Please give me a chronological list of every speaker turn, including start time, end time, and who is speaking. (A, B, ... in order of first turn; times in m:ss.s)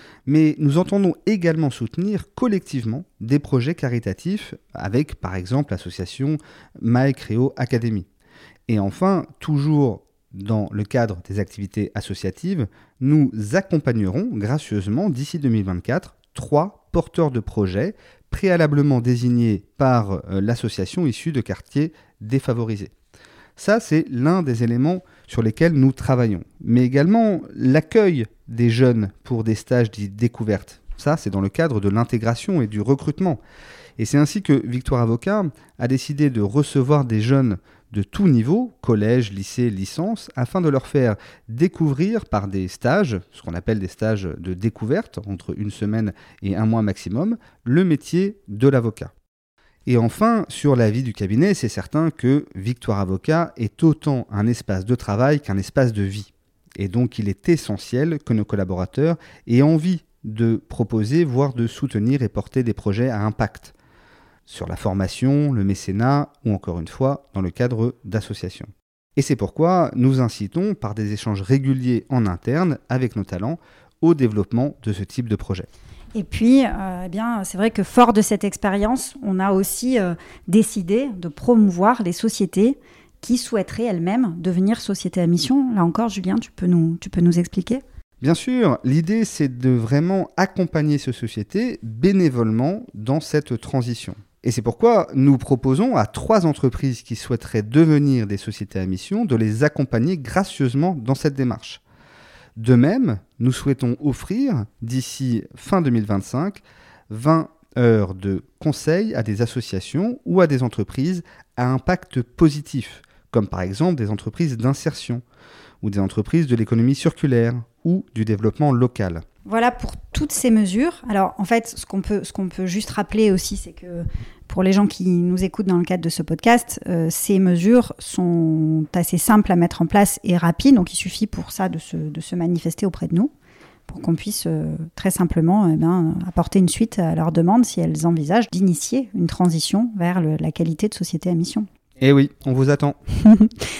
0:00.2-0:08.0 A
0:08.7-0:22.9 A
0:23.6-0:33.4 A
0:34.0-0:49.1 A
0:49.8-1:03.7 A
1:04.4-1:15.7 A
1:16.1-1:27.8 B
1:28.2-1:41.8 A
1:42.6-1:55.2 A
1:55.8-1:59.2 A
1:59.4-2:13.3 B
2:13.9-2:21.7 B
2:22.0-2:23.0 A
2:23.2-2:23.5 B